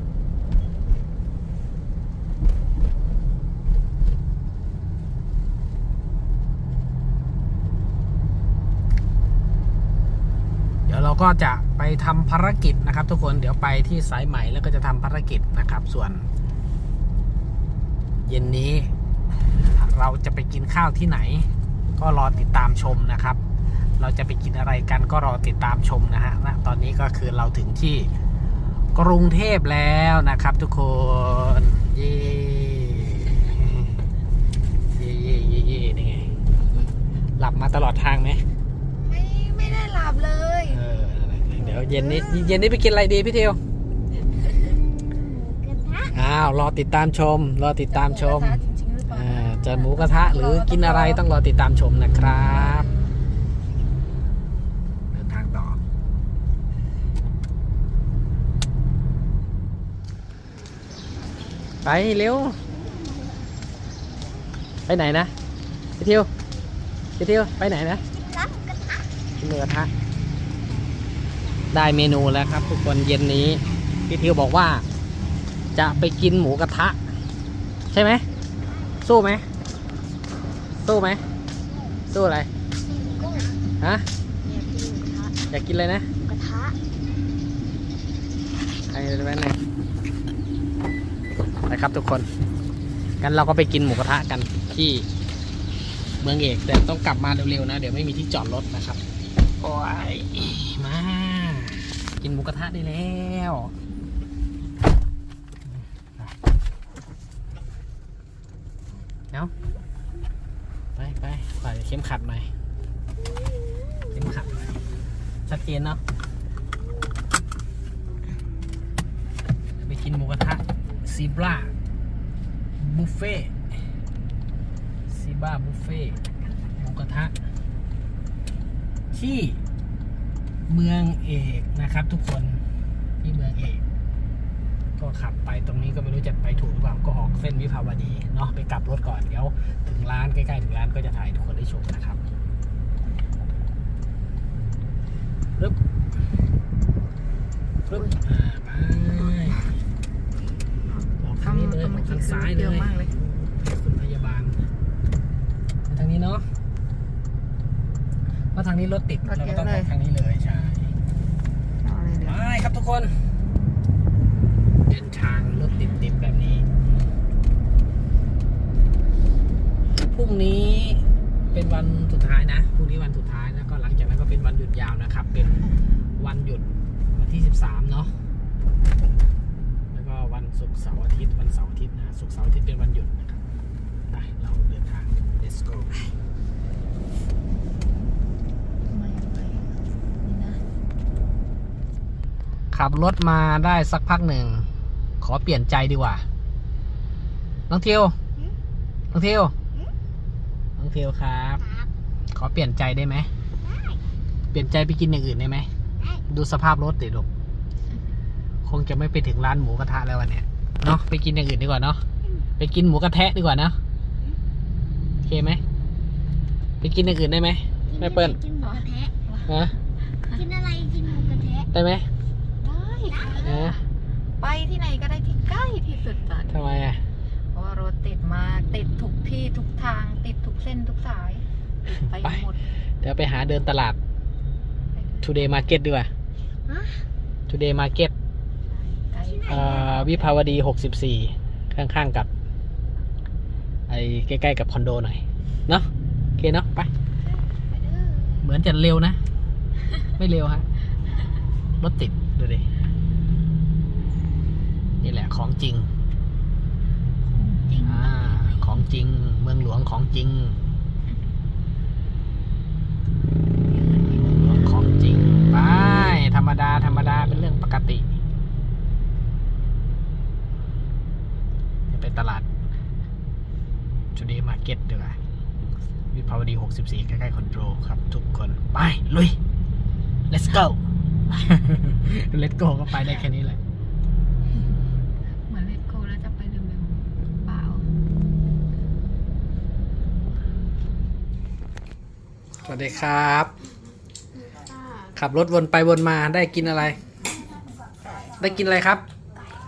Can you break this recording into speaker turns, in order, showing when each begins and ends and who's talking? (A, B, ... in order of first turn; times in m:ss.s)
0:10.9-0:16.3 A
0:18.3-0:18.9 A
0:19.6-0:23.4 A
0:24.0-0:28.1 A
0:29.0-0:34.0 A
0:35.0-0:36.3 A
0:37.4-0:38.4 A
0:38.9-0:40.8 B
0:40.7-0:43.6 A
0:42.3-0:42.6 B
0:44.4-0:46.2 C
0:46.1-0:52.9 A
0:47.9-0:51.2 B
0:52.4-0:53.0 B
0:55.1-0:55.8 A
1:01.8-1:02.6 A
1:02.7-1:03.5 C
1:04.9-1:05.3 A
1:06.0-1:06.3 A
1:07.2-1:08.0 A
1:08.0-1:09.1 C
1:09.4-1:09.9 A
1:11.7-1:14.8 A
1:15.8-1:17.0 A
1:17.9-1:18.2 A
1:19.0-1:19.5 A
1:20.8-1:21.2 A
1:22.1-1:22.5 A
1:22.8-1:23.6 C
1:23.8-1:24.1 A
1:24.4-1:25.4 C
1:25.5-1:26.1 A
1:26.2-1:26.8 C
1:28.9-1:29.6 A
1:31.7-1:32.3 A
1:33.2-1:35.1 A
1:36.2-1:39.0 A
1:39.6-1:43.8 A
1:45.7-1:46.4 A
1:51.0-1:52.5 A
1:54.1-1:54.8 A
1:55.5-1:56.0 A
1:59.8-2:01.7 A
2:02.8-2:03.6 A
2:05.1-2:06.2 A
2:06.8-2:07.3 A
2:09.1-2:09.6 A
2:10.7-2:12.6 A
2:13.2-2:13.8 A
2:15.0-2:22.2 A
2:27.9-2:29.8 A
2:31.2-2:34.6 A
2:31.4-2:33.1 B
2:35.9-2:36.5 A
2:38.6-2:40.9 A
2:39.2-2:39.9 B
2:41.8-2:42.4 B
2:42.2-2:43.2 A
2:44.9-2:46.7 A
2:50.1-2:55.7 A
2:56.2-2:58.1 A
2:59.9-3:03.4 A
3:04.1-3:06.1 A
3:08.9-3:10.6 B
3:12.7-3:14.7 A
3:15.2-3:16.2 A
3:17.7-3:18.2 A
3:19.1-3:19.5 A
3:20.8-3:21.6 A
3:21.6-3:21.9 C
3:22.3-3:23.3 A
3:23.6-3:24.0 C
3:24.5-3:25.7 A
3:26.0-3:26.2 C
3:26.3-3:27.3 A
3:28.6-3:32.0 A
3:32.6-3:33.8 A
3:35.2-3:35.6 A
3:36.8-3:38.4 A
3:37.9-3:39.1 C
3:38.6-3:39.5 B
3:39.5-3:39.8 A
3:40.3-3:41.7 C
3:41.7-3:42.1 A
3:42.6-3:43.8 B
3:43.1-3:43.6 C
3:43.4-3:43.8 A
3:44.4-3:46.7 B
3:46.5-3:47.0 A
3:47.5-3:52.6 B
3:52.0-3:52.4 A
3:53.0-3:54.0 A
3:54.9-3:55.7 B
3:55.2-3:56.1 A
3:56.7-3:57.0 C
3:57.5-3:58.1 A
3:58.7-4:00.6 B
3:59.2-3:59.9 C
3:59.5-4:02.3 A
4:03.9-4:06.9 A
4:07.6-4:08.5 B
4:08.4-4:09.2 A
4:10.2-4:10.7 A
4:11.8-4:12.7 A
4:15.0-4:15.9 A
4:17.2-4:18.9 B
4:17.8-4:20.6 A
4:23.6-4:24.7 B
4:24.1-4:28.2 A
4:31.9-4:32.5 A
4:34.2-4:35.2 A
4:36.1-4:39.4 A
4:40.3-4:40.8 A
4:41.3-4:43.6 A
4:45.5-4:47.9 B
4:52.6-4:53.5 A
4:54.4-4:55.1 C
4:55.2-4:57.0 A
4:58.4-4:59.0 A